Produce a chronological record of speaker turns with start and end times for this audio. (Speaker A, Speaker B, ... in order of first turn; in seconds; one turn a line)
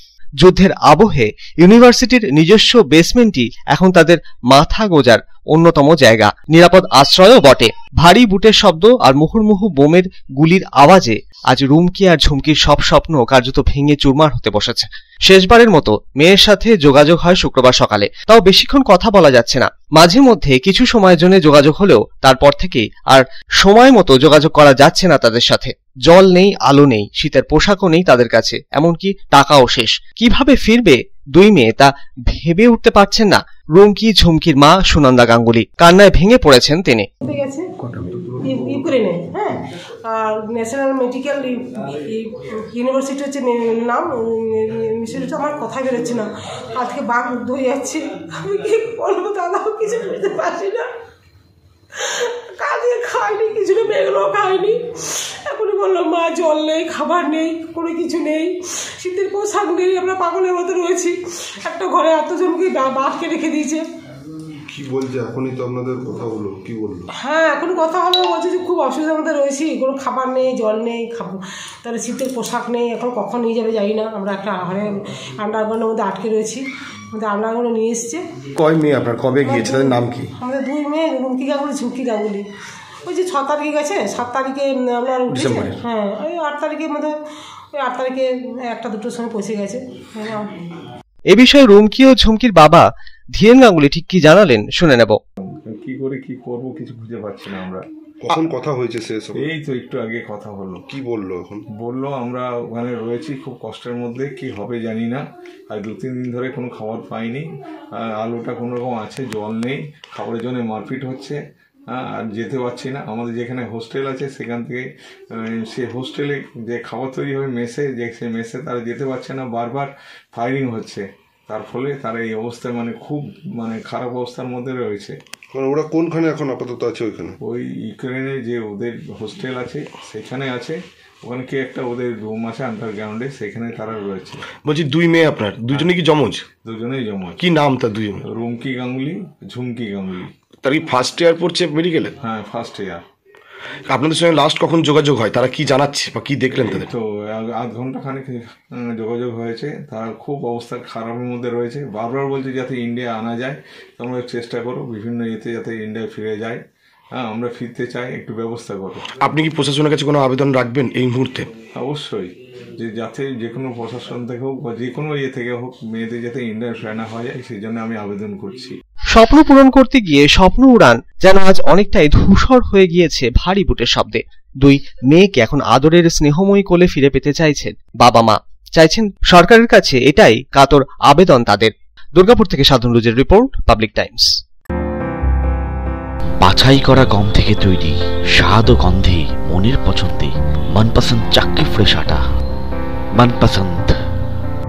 Speaker A: 0.4-37.1
Speaker B: 37.2-37.6
Speaker B: 38.4-50.9
Speaker B: 51.9-63.8
Speaker C: 64.7-67.0
Speaker B: 67.2-78.2
Speaker C: 78.6-79.8
Speaker B: 79.4-82.5
Speaker D: 79.5-80.0
Speaker B: 83.0-87.1
Speaker C: 85.3-85.7
Speaker B: 87.7-90.5
Speaker A: 91.3-95.2
Speaker E: 95.7-98.4
Speaker D: 98.3-99.4
Speaker C: 98.5-99.2
Speaker E: 99.3-100.9
Speaker C: 101.0-101.5
Speaker E: 101.7-107.5
Speaker E: 108.0-111.4
Speaker E: 111.9-125.2
Speaker C: 125.5-127.3
Speaker E: 127.4-134.4
Speaker D: 134.6-136.4
Speaker E: 136.6-137.4
Speaker D: 137.4-138.2
Speaker E: 138.2-140.3
Speaker D: 140.6-142.1
Speaker E: 142.2-143.0
Speaker D: 143.9-146.9
Speaker E: 146.5-156.6
Speaker E: 157.1-159.1
Speaker D: 159.1-161.5
Speaker E: 161.8-168.7
Speaker A: 169.1-184.3
Speaker F: 186.4-192.2
Speaker F: 193.1-193.9